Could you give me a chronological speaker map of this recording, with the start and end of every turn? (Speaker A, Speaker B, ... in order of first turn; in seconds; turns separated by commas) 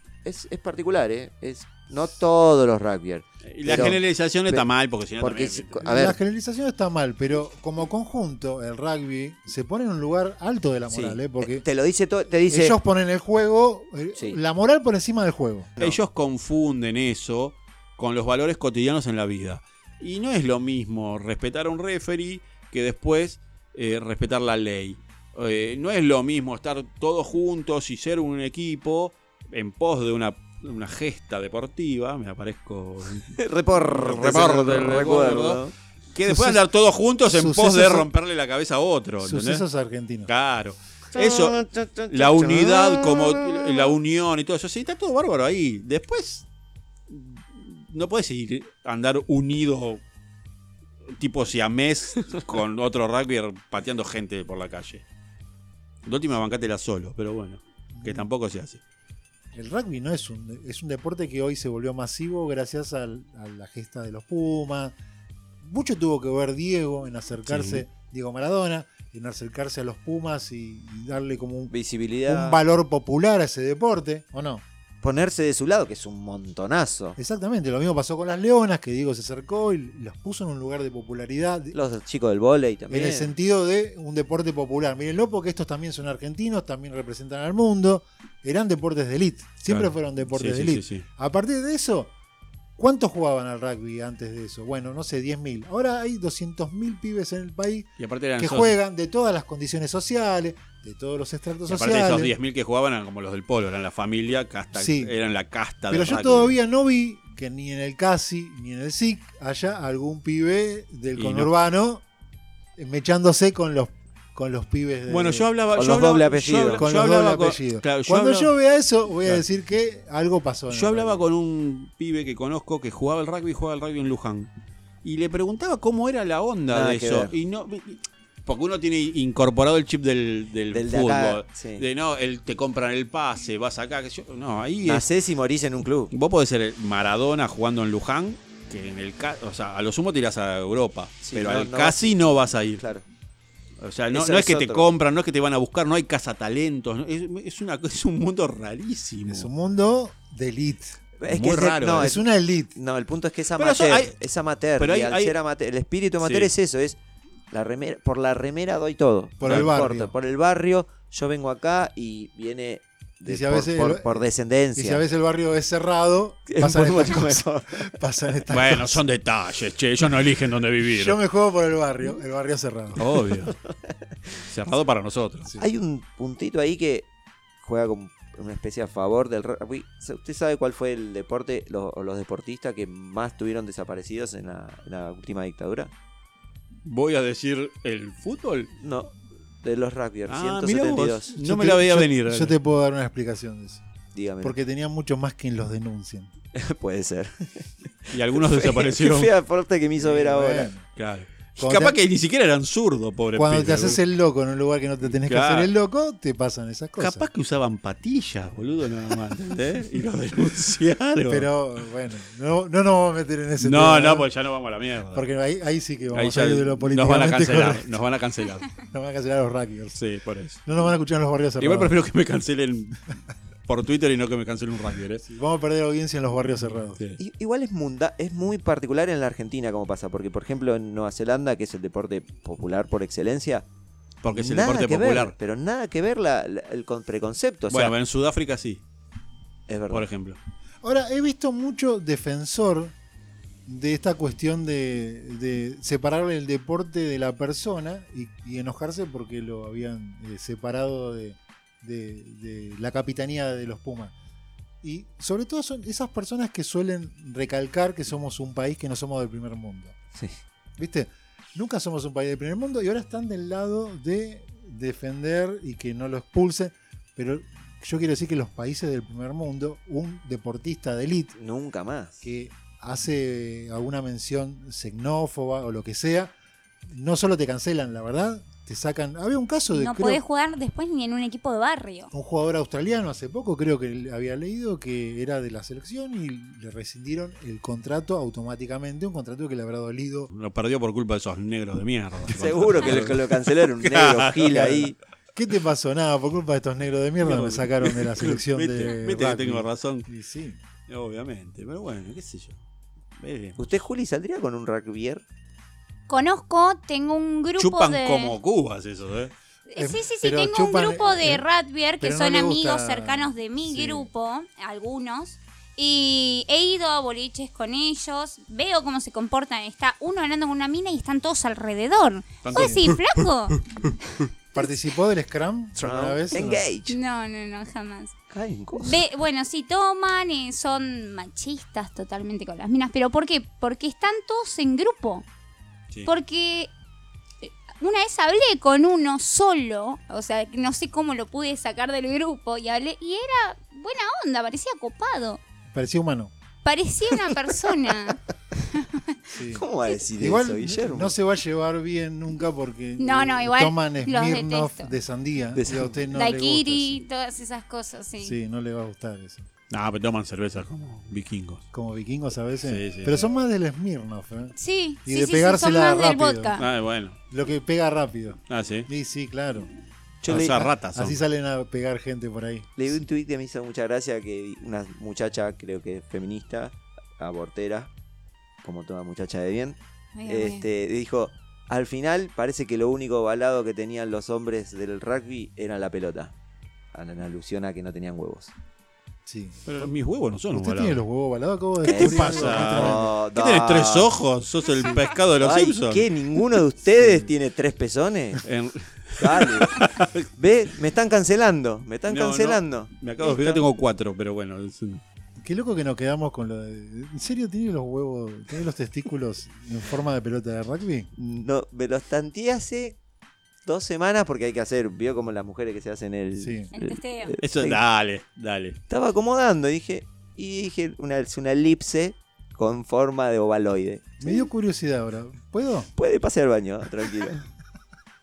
Speaker A: 0.2-4.7, Speaker B: 3.5-5.9, Speaker C: 3.7-4.0, Speaker A: 5.2-6.2, Speaker C: 5.8-11.7, Speaker A: 10.9-12.8, Speaker C: 12.5-15.8, Speaker B: 15.8-35.6, Speaker A: 33.3-35.7, Speaker B: 36.1-39.6, Speaker C: 36.2-36.6, Speaker C: 37.3-38.1, Speaker C: 39.2-40.3, Speaker B: 40.3-46.5, Speaker A: 41.1-44.0, Speaker B: 47.1-50.0, Speaker B: 51.1-55.0, Speaker B: 56.1-58.8, Speaker C: 57.9-58.3, Speaker C: 59.5-65.0, Speaker C: 65.6-71.7, Speaker B: 67.5-67.8, Speaker A: 71.7-72.6, Speaker C: 72.2-74.6, Speaker A: 75.0-77.2, Speaker C: 77.2-81.8, Speaker A: 81.7-83.3, Speaker C: 82.9-92.1, Speaker B: 89.7-91.0, Speaker C: 92.8-102.3, Speaker B: 98.0-98.7, Speaker B: 101.7-106.6, Speaker C: 104.8-105.2, Speaker C: 105.9-112.0, Speaker B: 111.2-111.5, Speaker C: 112.8-115.5, Speaker B: 115.1-118.5, Speaker A: 115.7-116.9, Speaker C: 116.8-121.2, Speaker B: 120.7-124.5, Speaker B: 125.0-135.1, Speaker A: 126.7-127.3, Speaker A: 130.7-131.8, Speaker A: 134.8-136.1, Speaker B: 136.1-142.8, Speaker A: 141.2-142.2, Speaker A: 142.8-143.1, Speaker B: 143.8-149.5, Speaker A: 144.1-144.9, Speaker C: 149.3-151.0, Speaker A: 151.2-152.2, Speaker B: 151.3-152.2, Speaker C: 151.9-152.8, Speaker A: 152.8-157.0, Speaker B: 153.6-154.2, Speaker B: 154.8-155.3, Speaker B: 156.2-156.5, Speaker A: 157.5-165.0, Speaker C: 159.4-160.1, Speaker B: 159.4-159.7, Speaker C: 163.3-164.2, Speaker C: 164.8-169.1, Speaker A: 166.5-167.9, Speaker B: 168.5-171.2, Speaker C: 170.8-173.1, Speaker B: 173.0-173.6, Speaker B: 174.4-175.5, Speaker A: 175.6-177.1, Speaker A: 177.6-185.9, Speaker B: 186.8-188.7, Speaker A: 188.8-191.3, Speaker B: 190.3-192.6, Speaker C: 191.3-193.9, Speaker A: 194.1-194.6, Speaker C: 194.4-196.3, Speaker A: 196.6-200.7, Speaker B: 198.1-199.3, Speaker C: 200.0-200.9, Speaker B: 201.0-204.0, Speaker C: 201.6-202.0, Speaker C: 203.3-207.3, Speaker B: 205.2-205.7, Speaker B: 207.0-211.5, Speaker C: 211.3-214.3, Speaker B: 213.6-215.3, Speaker C: 215.1-218.0, Speaker B: 216.1-218.8, Speaker C: 218.8-220.0, Speaker B: 219.9-220.6, Speaker C: 220.7-221.9, Speaker B: 221.6-223.0, Speaker B: 223.7-225.3, Speaker C: 225.3-227.0, Speaker B: 226.6-227.2, Speaker A: 227.2-233.7, Speaker B: 234.2-235.3, Speaker A: 234.3-237.9, Speaker B: 237.7-238.8, Speaker A: 239.7-240.1, Speaker B: 239.9-240.4, Speaker C: 240.8-242.9, Speaker C: 243.7-254.1, Speaker C: 254.8-259.9, Speaker C: 260.8-271.4, Speaker A: 271.4-272.2, Speaker C: 272.2-276.3, Speaker C: 276.9-280.2, Speaker D: 279.7-282.1, Speaker C: 282.1-290.3, Speaker B: 290.3-294.9, Speaker A: 292.2-294.9, Speaker C: 294.6-294.8, Speaker C: 295.4-300.6, Speaker B: 297.2-300.1, Speaker B: 300.9-302.6, Speaker B: 303.2-303.6, Speaker A: 303.6-305.2, Speaker D: 306.1-308.4, Speaker B: 307.6-309.3, Speaker D: 309.7-323.6, Speaker C: 309.8-311.5, Speaker C: 312.0-314.1, Speaker B: 322.4-324.0, Speaker C: 322.5-322.9, Speaker C: 324.5-326.7, Speaker A: 325.8-327.0, Speaker D: 326.9-328.1, Speaker A: 328.3-329.0, Speaker D: 328.7-335.3, Speaker D: 336.1-336.7, Speaker D: 337.4-345.4, Speaker C: 345.7-346.3, Speaker D: 346.6-349.2, Speaker C: 349.3-357.0, Speaker A: 349.4-351.2, Speaker D: 353.0-354.9, Speaker A: 355.6-356.0, Speaker D: 356.1-358.4, Speaker C: 358.2-359.5, Speaker B: 359.7-361.6, Speaker C: 361.7-366.6, Speaker B: 362.6-363.3, Speaker D: 364.6-366.7, Speaker B: 366.6-367.2, Speaker C: 367.3-369.7, Speaker B: 368.5-368.9, Speaker A: 370.2-370.7, Speaker B: 370.2-371.2, Speaker C: 370.3-373.0, Speaker A: 372.8-377.9, Speaker A: 378.6-386.4, Speaker D: 380.1-380.6, Speaker A: 386.9-388.5, Speaker C: 389.3-389.9, Speaker B: 389.7-391.0, Speaker C: 390.5-393.1, Speaker A: 391.8-394.1, Speaker B: 391.8-396.1, Speaker A: 395.4-398.5, Speaker B: 398.4-400.3, Speaker A: 399.2-403.7, Speaker B: 402.1-405.0, Speaker C: 405.4-411.1, Speaker A: 411.2-413.0, Speaker A: 413.6-417.8, Speaker C: 416.4-416.7, Speaker D: 416.7-417.4, Speaker B: 417.4-418.8, Speaker A: 418.9-424.4, Speaker C: 424.2-425.9, Speaker A: 425.9-427.4